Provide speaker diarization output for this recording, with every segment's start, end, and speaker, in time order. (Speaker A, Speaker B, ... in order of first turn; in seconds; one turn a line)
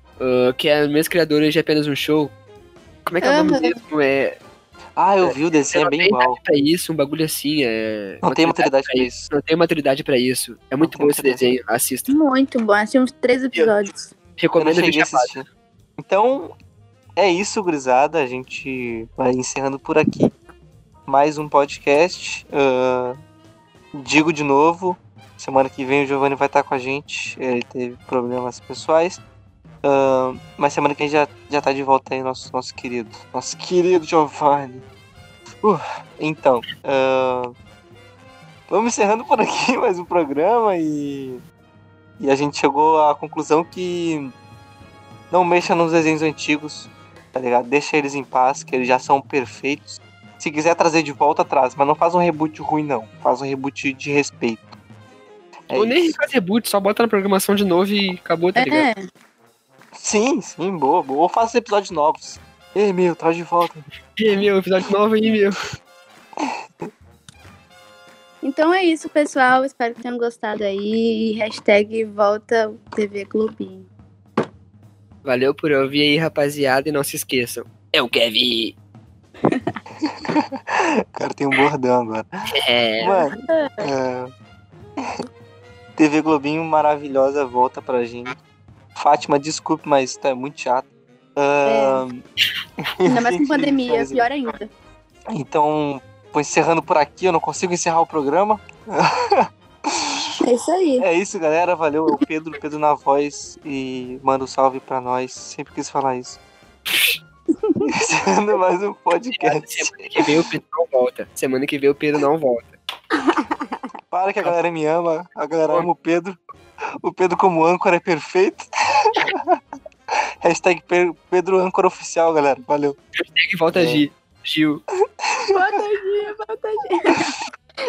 Speaker A: 0.2-2.3
Speaker A: 3.1-4.4
Speaker B: 3.2-3.8
Speaker C: 5.0-6.4
Speaker A: 5.2-12.1
Speaker C: 8.2-9.3
Speaker C: 10.8-11.4
Speaker B: 12.1-14.1
Speaker A: 14.4-15.4
Speaker C: 14.6-15.4
Speaker C: 16.0-16.5
Speaker C: 17.2-20.3
Speaker C: 21.1-23.2
Speaker C: 23.9-29.2
Speaker C: 29.8-34.8
Speaker C: 35.6-37.5
Speaker C: 38.7-41.4
Speaker C: 42.2-44.3
Speaker C: 45.3-54.8
Speaker C: 55.7-56.1
Speaker A: 55.7-58.9
Speaker B: 58.6-59.0
Speaker C: 59.9-63.9
Speaker A: 64.2-65.5
Speaker C: 66.4-66.9
Speaker B: 68.4-73.9
Speaker A: 75.2-78.8
Speaker B: 79.5-79.8
Speaker C: 80.1-82.3
Speaker A: 82.5-83.2
Speaker C: 83.0-84.3
Speaker B: 83.0-83.9
Speaker C: 86.0-88.4
Speaker C: 89.0-92.2
Speaker B: 91.7-92.0
Speaker C: 93.0-94.3
Speaker B: 93.1-94.7
Speaker C: 95.3-100.1
Speaker B: 100.4-101.1
Speaker C: 101.0-106.4
Speaker B: 107.6-107.9
Speaker C: 107.9-110.3
Speaker A: 109.3-112.8
Speaker C: 114.1-116.4
Speaker C: 117.0-119.6
Speaker C: 120.4-123.0
Speaker A: 123.2-124.8
Speaker C: 123.7-124.0
Speaker C: 125.5-125.8
Speaker B: 125.5-127.4